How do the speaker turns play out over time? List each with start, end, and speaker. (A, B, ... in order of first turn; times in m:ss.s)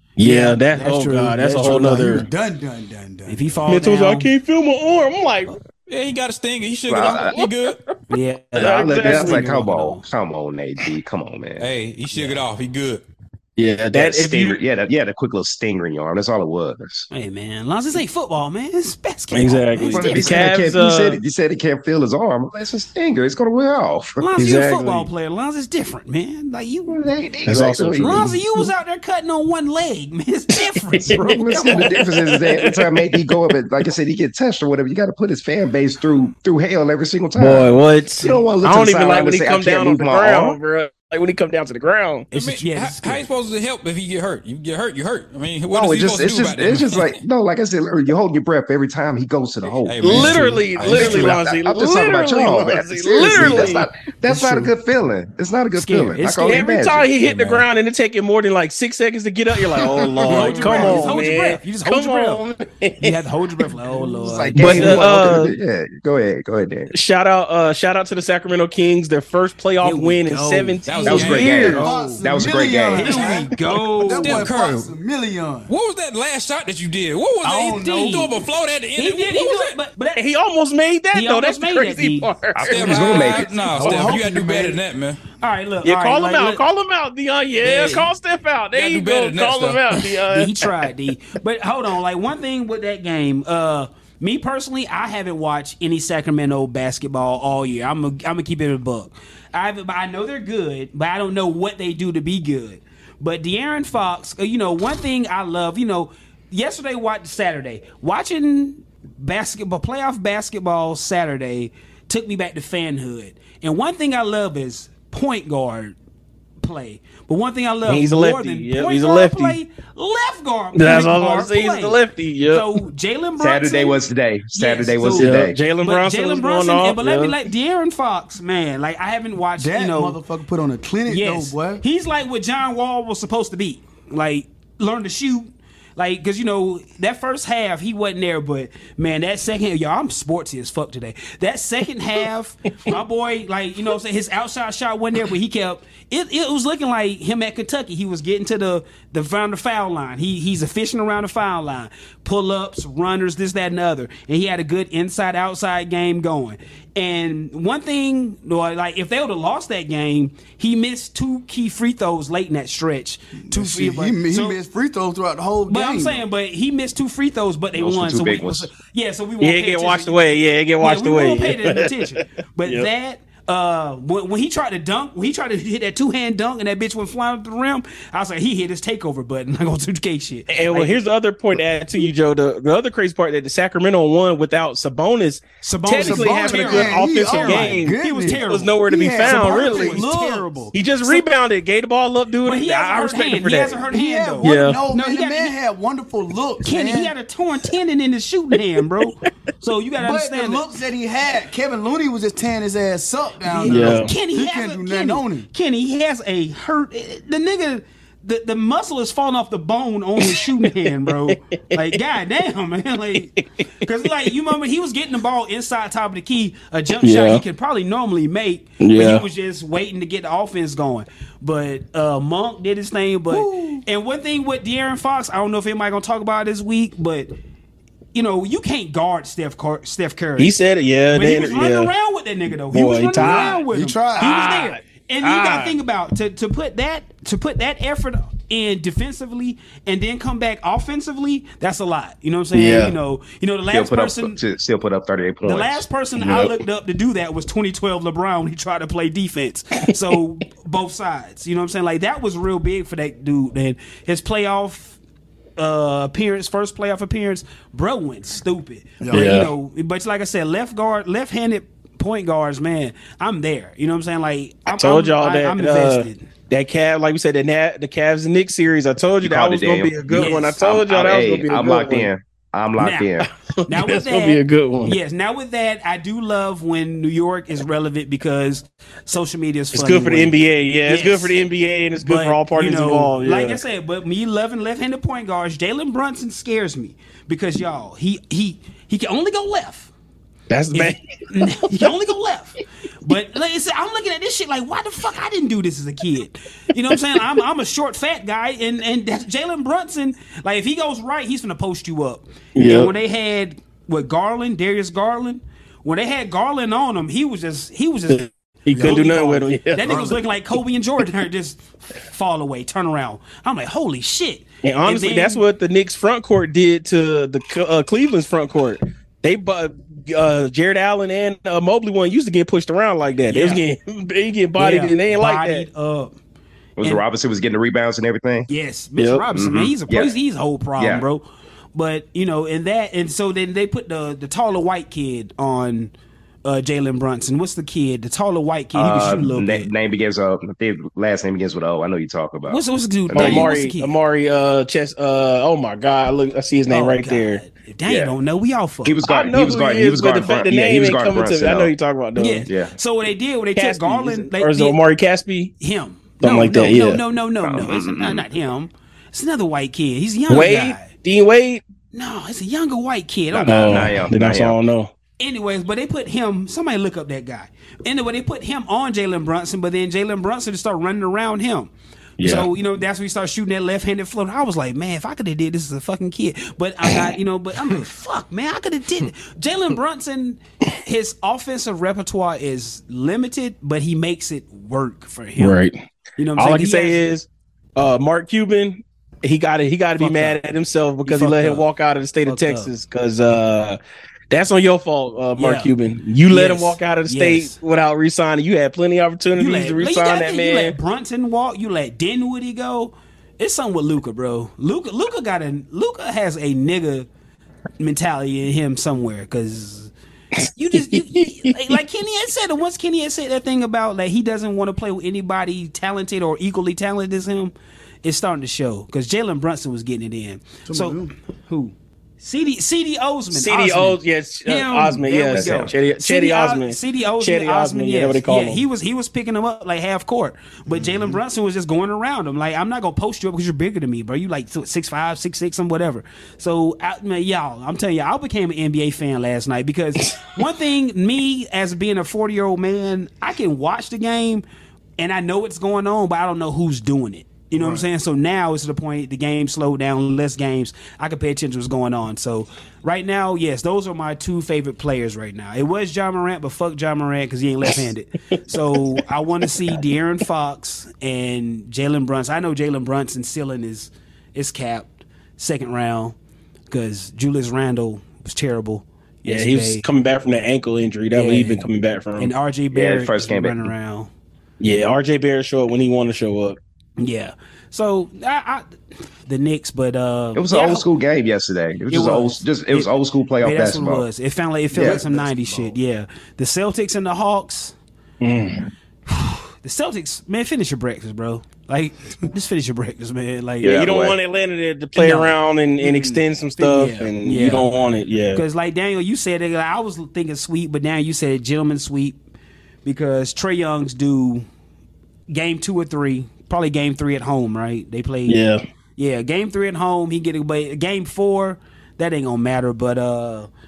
0:00.2-0:02.3 A
0:00.2-0:02.3 B
0:01.6-0:03.4 C
0:03.3-0:04.3 B
0:03.7-0:05.6 A
0:05.9-0:07.8 D
0:06.9-0:07.3 E
0:07.4-0:07.8 A
0:08.1-0:10.1 B
0:08.6-0:11.7 E
0:08.6-0:09.5 A
0:11.6-0:13.0 D
0:12.1-0:12.4 B
0:13.6-0:14.6 A
0:13.9-0:17.1 E
0:17.1-0:20.5 B
0:19.3-0:21.2 A
0:19.8-0:24.3 E
0:24.2-0:27.0 B
0:24.4-0:25.1 A
0:26.9-0:28.3 E
0:27.5-0:28.4 A
0:28.0-0:31.9 B
0:30.7-0:33.3 A
0:31.0-0:40.6 E
0:37.4-0:42.3 A
0:42.3-0:43.2 B
0:42.3-0:47.2 D
0:45.7-0:57.1 E
0:49.8-0:51.4 D
0:50.0-0:53.9 A
0:50.1-0:51.0 B
0:53.2-0:53.6 C
0:54.3-0:54.7 C
0:55.8-0:56.8 B
0:56.4-1:03.2 A
0:57.2-0:57.6 D
1:00.3-1:02.4 B
1:00.6-1:01.0 E
1:03.0-1:05.4 B
1:04.2-1:06.9 E
1:04.6-1:05.5 A
1:06.9-1:11.9 A
1:09.8-1:12.3 B
1:10.8-1:12.0 D
1:11.1-1:13.4 E
1:11.8-1:15.7 C
1:12.9-1:14.5 B
1:14.0-1:14.9 D
1:15.7-1:19.8 D
1:17.4-1:18.4 C
1:19.0-1:20.2 B
1:20.2-1:23.2 A
1:21.1-1:22.3 B
1:22.6-1:24.2 E
1:22.7-1:25.2 D
1:23.5-1:24.2 B
1:23.8-1:24.8 C
1:25.4-1:26.6 B
1:25.8-1:30.9 A
1:27.6-1:28.1 D
1:28.8-1:29.8 D
1:30.3-1:56.0 B
1:56.6-2:02.0 B
1:57.9-1:59.6 A
2:00.8-2:02.7 A
2:02.5-2:10.2 B
2:03.4-2:05.6 E
2:05.2-2:07.4 A
2:09.6-2:11.8 C
2:11.1-2:44.6 B
2:43.5-2:46.2 C
2:45.7-3:01.0 B
2:47.8-2:48.7 E
2:49.4-2:52.1 A
3:00.5-3:10.0 A
3:05.6-3:11.3 B
3:06.0-3:10.7 C
3:10.7-3:13.8 A
3:12.4-3:15.6 B
3:13.9-3:17.1 C
3:14.4-3:14.8 A
3:16.6-3:20.7 B
3:20.0-3:25.5 C
3:23.5-3:47.3 B
3:23.7-3:24.1 A
3:30.2-3:32.0 A
3:37.0-3:37.4 A
3:38.8-3:39.2 A
3:43.3-3:43.8 C
3:48.1-3:50.6 B
3:50.4-3:51.9 A
3:51.1-4:04.4 B
3:52.7-3:53.6 A
3:53.2-3:54.4 C
3:54.2-3:55.8 A
4:02.5-4:03.0 A
4:03.7-4:05.8 E
4:05.4-4:15.0 B
4:06.2-4:06.6 A
4:15.6-4:26.3 B
4:19.0-4:19.3 C
4:19.1-4:19.5 A
4:24.7-4:32.1 A
4:29.2-4:33.3 E
4:30.1-4:30.6 B
4:32.8-4:33.1 B
4:33.6-4:35.0 A
4:33.7-4:41.4 B
4:39.7-4:43.6 A
4:42.0-4:49.9 B
4:50.5-4:51.9 A
4:50.7-5:15.4 B
5:02.6-5:02.9 A
5:08.1-5:10.2 A
5:08.8-5:09.0 C
5:09.8-5:10.2 C
5:14.6-5:25.7 A
5:23.3-5:23.6 B
5:24.6-5:26.2 B
5:26.8-5:28.5 E
5:28.5-5:35.9 B
5:29.0-5:29.2 A
5:29.3-5:30.2 E
5:30.8-5:31.0 E
5:36.4-5:39.7 B
5:38.8-5:43.5 E
5:42.5-5:43.9 B
5:43.1-5:47.4 A
5:46.7-5:49.0 B
5:47.9-5:48.1 E
5:48.8-5:51.7 E
5:49.1-5:52.5 A
5:52.2-5:54.8 B
5:52.5-5:52.7 E
5:53.6-5:55.5 A
5:55.6-6:00.9 B
5:56.2-5:57.0 A
5:57.4-5:58.3 E
6:00.3-6:01.6 A
6:01.9-6:03.9 B
6:03.3-6:04.6 E
6:03.5-6:04.9 A
6:05.2-6:11.7 B
6:12.2-6:12.5 E
6:12.2-6:25.6 B
6:25.4-6:25.8 A
6:26.2-6:27.1 B
6:26.4-6:33.8 A
6:30.0-6:30.4 B
6:31.0-6:31.6 B
6:32.3-6:32.7 B
6:34.3-6:40.8 A
6:35.4-6:35.7 B
6:36.3-6:37.6 B
6:39.4-6:47.1 B
6:47.8-6:49.9 B
6:50.4-6:51.8 A
6:50.6-7:24.4 B
7:00.7-7:01.1 C
7:03.3-7:08.6 A
7:05.3-7:05.7 E
7:10.8-7:11.2 C
7:25.0-7:46.2 B
7:27.5-7:27.8 C
7:46.7-7:49.8 B
7:49.3-7:52.3 A
7:51.1-7:51.7 B
7:52.2-7:54.1 B
7:52.7-7:53.7 E
7:54.6-7:56.6 A
7:57.0-7:58.7 B
7:59.2-8:00.9 B
8:00.4-8:04.1 E
8:01.9-8:02.9 B
8:03.4-8:07.8 B
8:04.7-8:05.0 E
8:04.8-8:05.7 C
8:08.2-8:08.7 A
8:09.1-8:13.8 B
8:13.6-8:14.2 E
8:13.6-8:18.4 A
8:15.0-8:17.7 B
8:18.3-8:22.2 B
8:22.8-8:24.5 B
8:25.3-8:28.4 B
8:28.3-8:28.6 A
8:29.0-8:33.5 B